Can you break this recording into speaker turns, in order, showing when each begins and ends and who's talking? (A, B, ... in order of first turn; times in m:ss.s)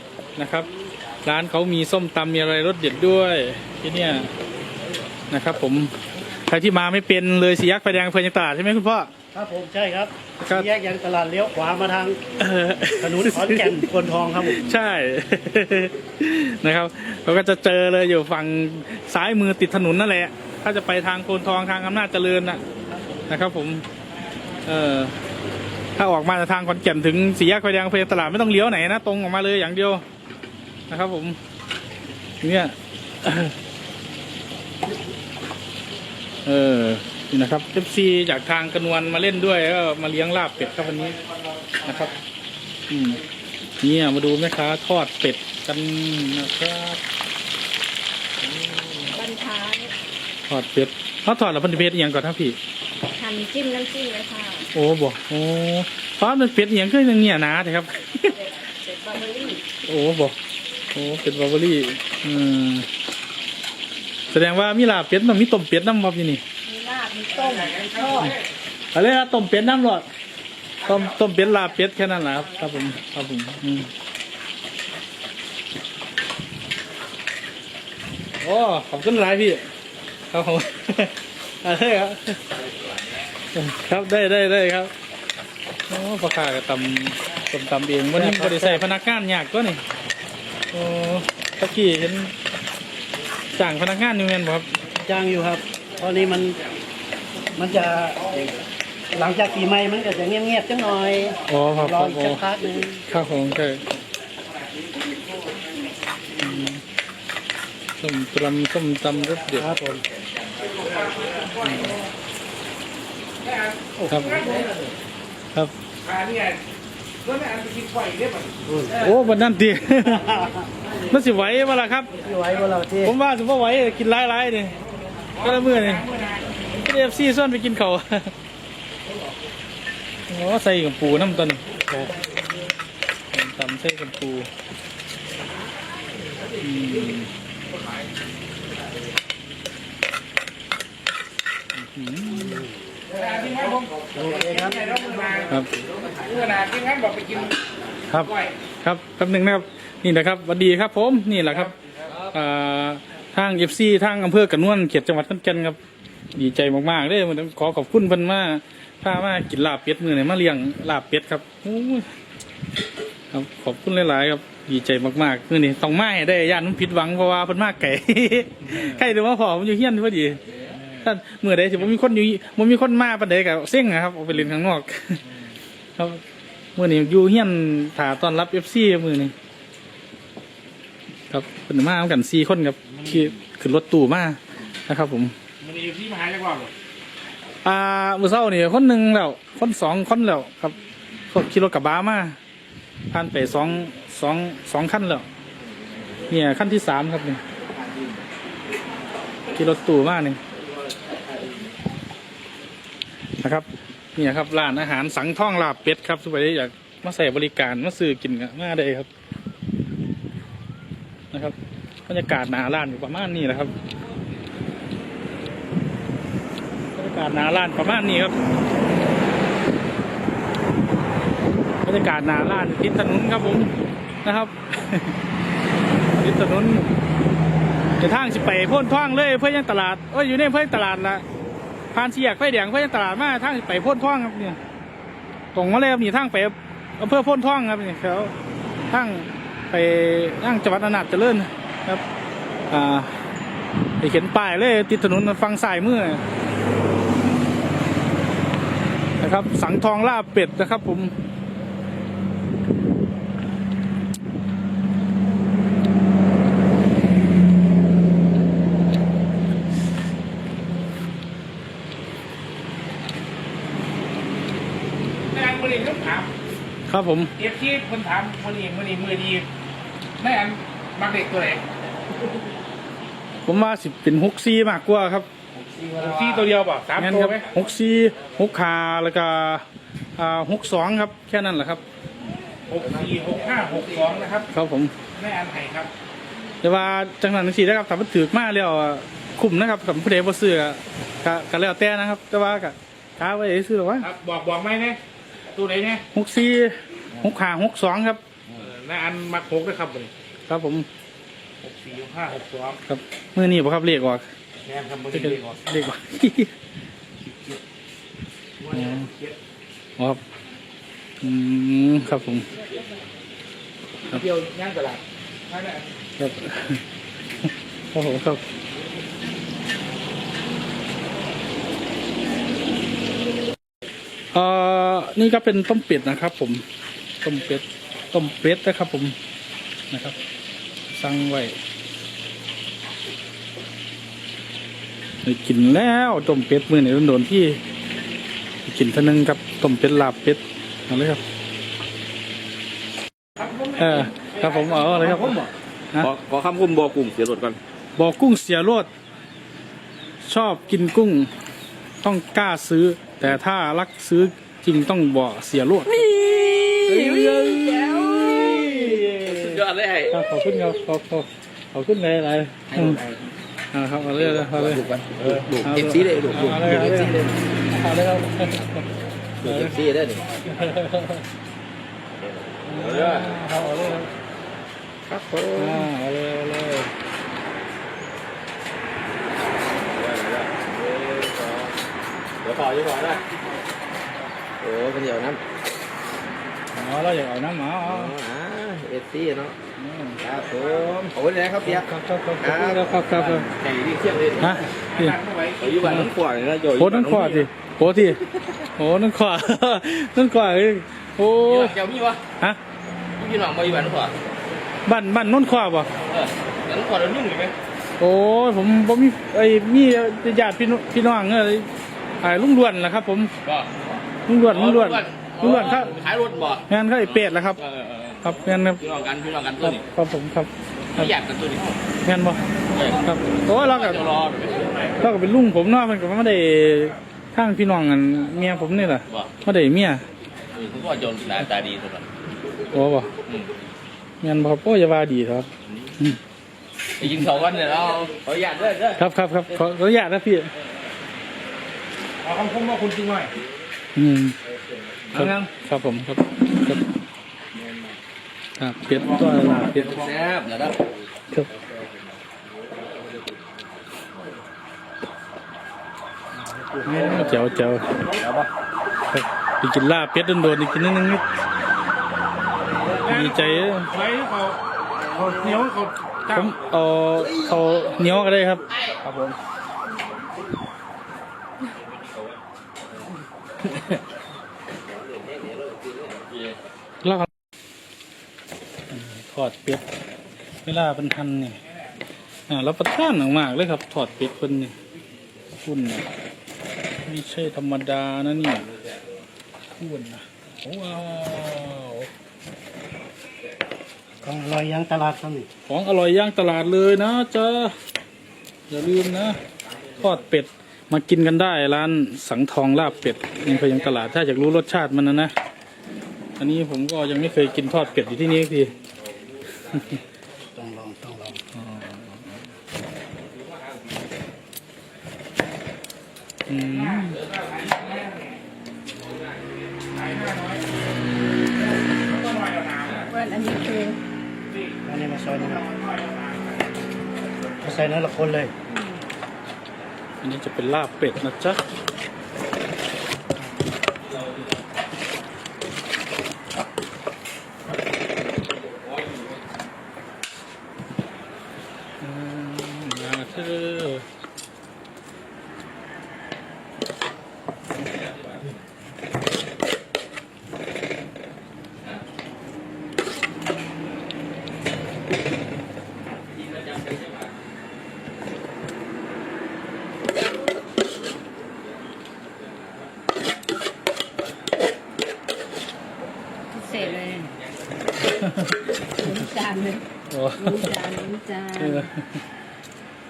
0:00.4-0:00.7 A
0:01.2-0:04.3 A
0:05.3-0:09.1 A
0:09.3-0:12.2 B
0:12.4-0:13.9 A
0:13.0-0:14.7 B
0:14.4-0:22.6 A
0:23.3-0:23.8 A
0:24.6-0:25.2 A
0:26.0-0:30.0 A
0:30.9-0:31.4 A
0:32.4-0:33.6 A
0:36.4-0:41.2 A
0:40.7-0:42.2 C
0:41.8-0:42.1 A
0:42.9-0:43.2 A
0:43.8-0:47.0 A
0:49.1-0:49.9 D
0:50.5-0:52.6 A
0:53.1-0:54.7 D
0:54.7-0:58.4 A
0:58.2-0:59.6 D
0:59.8-1:00.4 A
1:00.9-1:02.9 A
1:04.3-1:06.4 A
1:06.6-1:08.4 D
1:07.3-1:08.5 C
1:08.9-1:10.1 A
1:10.8-1:11.1 C
1:10.8-1:13.9 A
1:11.3-1:11.8 D
1:18.4-1:19.7 A
1:20.3-1:22.4 A
1:23.5-1:24.9 A
1:25.9-1:29.8 A
1:28.2-1:28.9 B
1:30.7-1:32.3 A
1:33.6-1:34.7 A
1:35.0-1:36.6 B
1:37.6-1:38.6 B
1:39.1-1:43.0 B
1:41.5-1:42.4 A
1:43.1-1:44.0 A
1:46.4-1:46.8 A
1:48.0-1:49.7 A
1:49.5-1:50.0 B
1:50.6-1:52.1 C
1:51.6-1:51.9 A
1:53.4-1:54.7 C
1:54.0-1:54.7 B
1:54.1-1:54.4 A
1:56.0-1:56.6 C
1:57.2-1:58.6 C
1:58.7-1:59.0 B
1:59.0-2:00.3 A
2:00.0-2:00.8 B
2:01.1-2:02.1 A
2:02.1-2:03.2 B
2:03.0-2:04.8 A
2:05.4-2:06.5 C
2:05.4-2:06.0 A
2:06.8-2:08.3 A
2:10.3-2:11.6 A
2:13.3-2:14.5 A
2:16.6-2:17.3 A
2:21.8-2:22.6 A
2:22.4-2:22.8 B
2:23.1-2:25.5 C
2:24.1-2:24.8 B
2:26.1-2:27.6 C
2:28.1-2:31.7 A
2:28.2-2:28.6 C
2:31.4-2:32.2 C
2:32.3-2:35.8 A
2:36.4-2:42.1 A
2:43.3-2:50.4 A
2:51.0-2:55.2 A
2:56.0-2:56.2 A
2:56.8-2:59.3 A
3:01.3-3:05.3 A
3:05.6-3:06.7 C
3:07.6-3:10.8 A
3:11.3-3:12.4 A
3:13.1-3:15.3 A
3:16.3-3:17.4 A
3:19.6-3:20.4 A
3:23.4-3:29.1 A
3:32.1-3:33.7 A
3:36.9-3:38.4 A
3:41.8-3:43.7 A
3:44.2-3:45.2 A
3:46.1-3:46.9 A
3:48.0-3:51.2 A
3:51.9-3:54.6 A
3:55.5-3:58.3 A
3:58.9-4:02.0 A
4:02.7-4:03.2 A
4:04.0-4:06.2 A
4:09.2-4:11.1 A
4:25.3-4:26.3 C
4:26.9-4:27.3 A
4:27.4-4:29.5 C
4:30.2-4:31.6 C
4:33.5-4:35.3 A
4:35.5-4:36.5 E
4:36.0-4:37.4 C
4:37.0-4:41.8 A
4:42.7-4:44.5 C
4:44.5-4:44.9 A
4:45.1-4:45.9 C
4:46.6-4:54.1 A
4:54.0-4:55.0 C
4:55.5-4:56.0 C
4:56.1-4:58.2 A
4:58.6-5:00.1 C
5:00.5-5:00.9 A
5:01.6-5:02.8 C
5:02.9-5:04.3 A
5:04.6-5:05.6 C
5:05.1-5:06.5 A
5:07.2-5:07.6 C
5:08.6-5:09.4 C
5:08.7-5:09.1 A
5:11.2-5:12.5 A
5:12.5-5:13.0 C
5:14.1-5:16.0 C
5:16.2-5:16.8 A
5:17.9-5:18.4 A
5:24.3-5:26.7 A
5:27.2-5:29.2 A
5:29.9-5:30.2 A
5:30.9-5:31.6 A
5:35.2-5:37.6 A
5:38.6-5:41.2 A
5:43.4-5:45.3 C
5:43.8-5:45.4 A
5:45.0-5:47.6 E
5:48.0-5:48.9 A
5:50.2-5:51.3 A
5:52.0-5:56.1 A
5:55.9-6:00.2 E
5:56.8-6:03.0 A
6:02.7-6:03.2 E
6:03.7-6:07.2 A
6:04.2-6:07.4 E
6:07.7-6:08.9 A
6:09.4-6:10.4 E
6:09.4-6:09.8 A
6:10.5-6:11.2 A
6:12.2-6:13.4 E
6:12.7-6:14.1 A
6:15.1-6:15.8 E
6:15.6-6:16.9 A
6:19.9-6:21.8 E
6:22.4-6:23.2 E
6:23.1-6:23.8 C
6:24.6-6:25.4 E
6:26.7-6:28.1 A
6:27.9-6:29.6 E
6:29.8-6:30.2 A
6:30.2-6:31.9 E
6:30.2-6:30.9 C
6:31.6-6:33.5 A
6:32.4-6:34.7 E
6:34.4-6:35.2 A
6:34.9-6:36.1 C
6:35.6-6:37.5 E
6:35.8-6:36.1 A
6:36.8-6:38.2 A
6:38.8-6:41.8 A
6:41.4-6:42.2 E
6:43.2-6:44.2 E
6:44.9-6:45.9 A
6:46.1-6:47.6 E
6:48.0-6:51.7 A
6:52.2-6:53.3 A
6:53.4-6:59.8 E
6:54.3-6:55.9 A
6:56.7-6:57.6 A
6:58.2-6:58.8 A
6:59.6-7:01.1 A
7:00.9-7:01.9 E
7:02.0-7:02.4 A
7:02.7-7:04.8 E
7:03.0-7:04.0 A
7:04.7-7:05.0 C
7:05.0-7:10.0 A
7:10.5-7:12.0 E
7:12.7-7:13.1 A
7:14.2-7:16.2 A
7:17.0-7:19.0 E
7:19.0-7:20.5 A
7:22.2-7:23.3 C
7:24.0-7:24.4 A
7:24.7-7:25.5 E
7:25.1-7:26.8 A
7:27.6-7:28.0 E
7:28.6-7:30.0 A
7:28.9-7:30.9 E
7:32.6-7:33.5 E
7:36.8-7:37.9 A
7:36.9-7:37.4 E
7:37.9-7:38.5 E
7:39.1-7:41.3 A
7:42.9-7:44.6 C
7:43.1-7:43.9 A
7:45.1-7:46.6 C
7:46.3-7:48.6 A
7:51.8-7:52.4 E
7:55.3-7:56.6 E
7:57.0-7:57.3 A
7:58.9-7:59.8 A
8:00.6-8:01.6 A
8:01.6-8:02.0 C
8:02.5-8:04.8 A
8:05.6-8:06.1 A
8:07.0-8:08.7 A
8:09.8-8:12.1 A
8:14.2-8:15.5 B
8:15.7-8:17.8 A
8:18.7-8:19.4 A
8:20.0-8:25.3 A
8:26.4-8:28.7 A
8:29.4-8:30.0 E
8:30.6-8:31.4 B
8:31.5-8:32.4 A
8:33.2-8:34.0 E
8:36.5-8:37.2 A
8:36.6-8:38.4 C
8:37.6-8:38.0 E
8:38.9-8:39.8 E
8:39.9-8:40.6 C
8:41.5-8:43.1 C
8:43.0-8:44.0 D
8:44.4-8:46.8 C
8:44.8-8:45.6 B
8:47.6-8:48.5 B
8:48.7-8:49.0 D
8:50.2-8:51.6 A
8:53.4-8:53.7 A
8:54.0-8:54.6 E
8:58.2-8:59.5 E
9:02.0-9:04.1 A
9:07.8-9:08.6 E
9:16.3-9:17.4 E
9:22.3-9:22.9 E
9:26.5-9:27.4 D
9:26.6-9:27.9 E
9:28.2-9:28.6 A
9:28.8-9:29.8 D
9:30.1-9:30.7 A
9:30.4-9:31.9 D
9:31.6-9:32.0 A